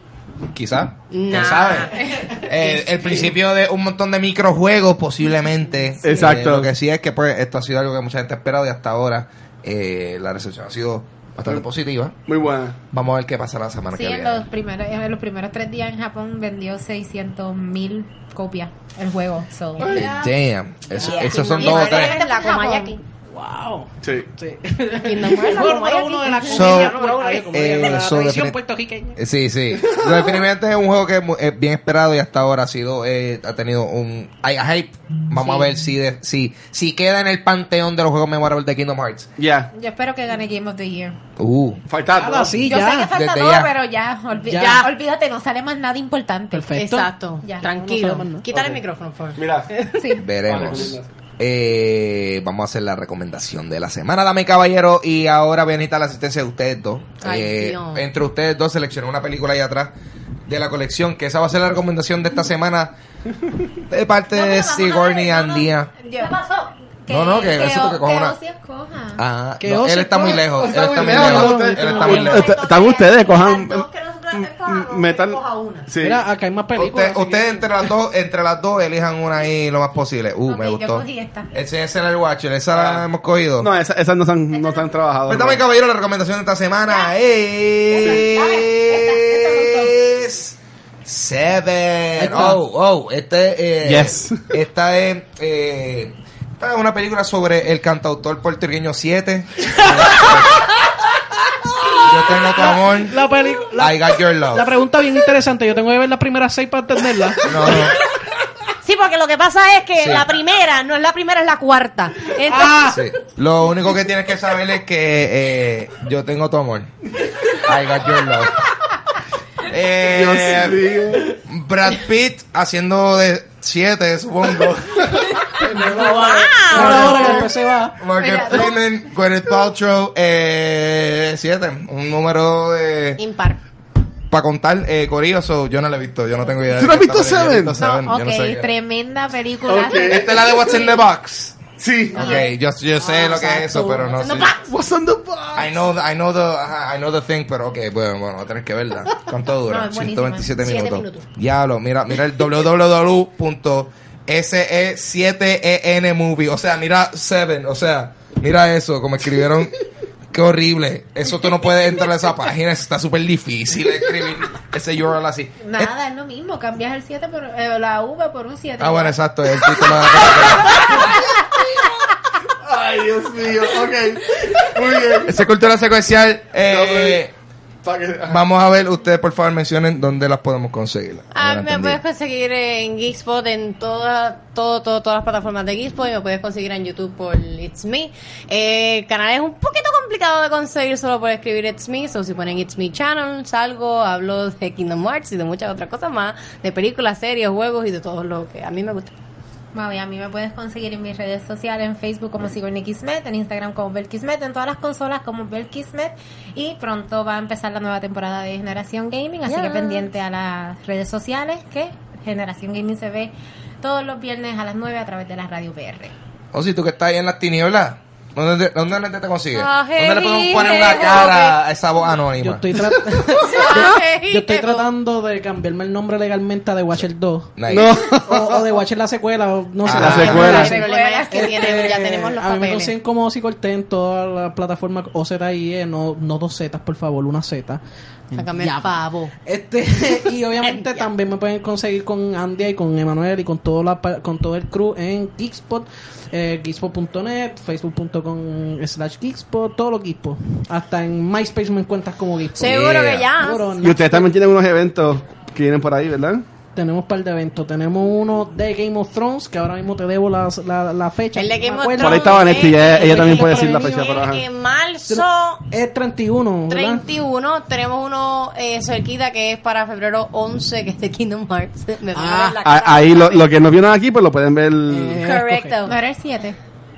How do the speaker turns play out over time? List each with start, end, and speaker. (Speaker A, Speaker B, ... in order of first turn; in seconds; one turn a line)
Speaker A: 0.5-1.9
Speaker B: 1.1-2.0
Speaker C: 1.4-1.9
Speaker D: 1.8-2.4
Speaker A: 2.4-12.1
Speaker B: 2.6-3.3
Speaker C: 6.0-6.7
Speaker C: 12.2-12.8
Speaker A: 12.9-14.5
Speaker D: 13.9-20.3
Speaker A: 19.9-22.2
Speaker E: 21.0-21.4
Speaker B: 21.0-23.0
Speaker D: 21.1-22.9
Speaker E: 23.3-29.2
Speaker C: 24.0-24.3
Speaker B: 24.9-27.5
Speaker A: 26.5-28.6
Speaker A: 29.1-39.3
Speaker C: 29.8-30.2
Speaker C: 39.4-39.7
Speaker D: 39.7-41.1
Speaker A: 41.4-41.8
Speaker C: 41.9-42.6
Speaker E: 42.1-43.1
Speaker D: 42.6-46.8
Speaker A: 43.1-43.7
Speaker E: 44.4-44.9
Speaker B: 44.5-44.9
Speaker E: 46.5-48.4
Speaker B: 46.8-50.2
Speaker D: 47.4-47.7
Speaker C: 48.5-48.8
Speaker C: 49.4-49.7
Speaker D: 49.9-50.3
Speaker A: 50.1-59.9
Speaker C: 50.4-51.1
Speaker B: 57.2-58.0
Speaker A: 60.5-62.9
Speaker A: 63.9-65.9
Speaker D: 64.3-66.5
Speaker B: 66.2-66.7
Speaker D: 67.0-69.2
Speaker A: 67.1-68.4
Speaker A: 69.2-72.6
Speaker E: 69.6-72.4
Speaker C: 70.2-76.2
Speaker B: 71.9-75.9
Speaker E: 76.0-77.6
Speaker A: 76.8-83.7
Speaker D: 80.5-81.5
Speaker C: 82.7-83.0
Speaker C: 83.6-85.6
Speaker D: 84.5-84.8
Speaker A: 85.3-100.7
Speaker D: 86.9-87.1
Speaker D: 87.9-89.9
Speaker C: 92.2-92.6
Speaker E: 92.2-92.5
Speaker C: 93.8-94.4
Speaker A: 102.0-103.2
Speaker E: 102.5-107.8
Speaker A: 103.8-104.7
Speaker A: 107.4-108.0
Speaker B: 108.8-113.0
Speaker A: 110.0-110.3
Speaker E: 112.5-113.0
Speaker A: 112.9-116.9
Speaker A: 117.5-118.7
Speaker A: 119.6-125.6
Speaker C: 120.0-121.3
Speaker E: 125.6-128.0
Speaker B: 125.8-127.5
Speaker A: 126.8-127.3
Speaker A: 128.0-133.2
Speaker D: 128.2-128.8
Speaker B: 133.2-133.6
Speaker A: 134.3-138.7
Speaker C: 136.7-137.8
Speaker D: 137.8-140.9
Speaker C: 139.7-140.3
Speaker A: 139.9-144.5
Speaker C: 141.8-142.3
Speaker B: 142.1-144.7
Speaker E: 143.7-144.1
Speaker C: 144.6-145.8
Speaker A: 145.6-159.7
Speaker D: 149.6-150.7
Speaker B: 150.6-151.2
Speaker A: 160.3-165.9
Speaker D: 165.6-170.1
Speaker A: 168.8-171.2
Speaker C: 172.6-175.4
Speaker A: 175.2-177.3
Speaker C: 176.6-177.2
Speaker C: 177.8-178.4
Speaker A: 178.3-182.0
Speaker B: 181.3-199.1
Speaker D: 199.7-216.1
Speaker B: 209.5-210.1
Speaker A: 216.5-222.6
Speaker B: 219.5-221.6
Speaker E: 222.4-227.5
Speaker B: 223.4-224.9
Speaker A: 227.6-228.0
Speaker C: 227.7-228.6
Speaker E: 228.2-237.8
Speaker A: 229.8-230.6
Speaker C: 229.9-230.8
Speaker B: 230.0-232.9
Speaker D: 230.1-231.8
Speaker E: 238.3-252.8
Speaker B: 238.3-239.3
Speaker B: 240.6-241.1
Speaker A: 252.6-253.3
Speaker B: 252.6-253.8
Speaker E: 253.4-254.3
Speaker C: 253.8-256.4
Speaker E: 256.8-264.1
Speaker B: 261.3-265.6
Speaker C: 262.0-264.4
Speaker E: 265.1-267.0
Speaker B: 266.7-273.5
Speaker E: 272.1-272.6
Speaker C: 272.6-275.2
Speaker E: 274.9-275.8
Speaker B: 275.2-275.9
Speaker D: 275.8-276.6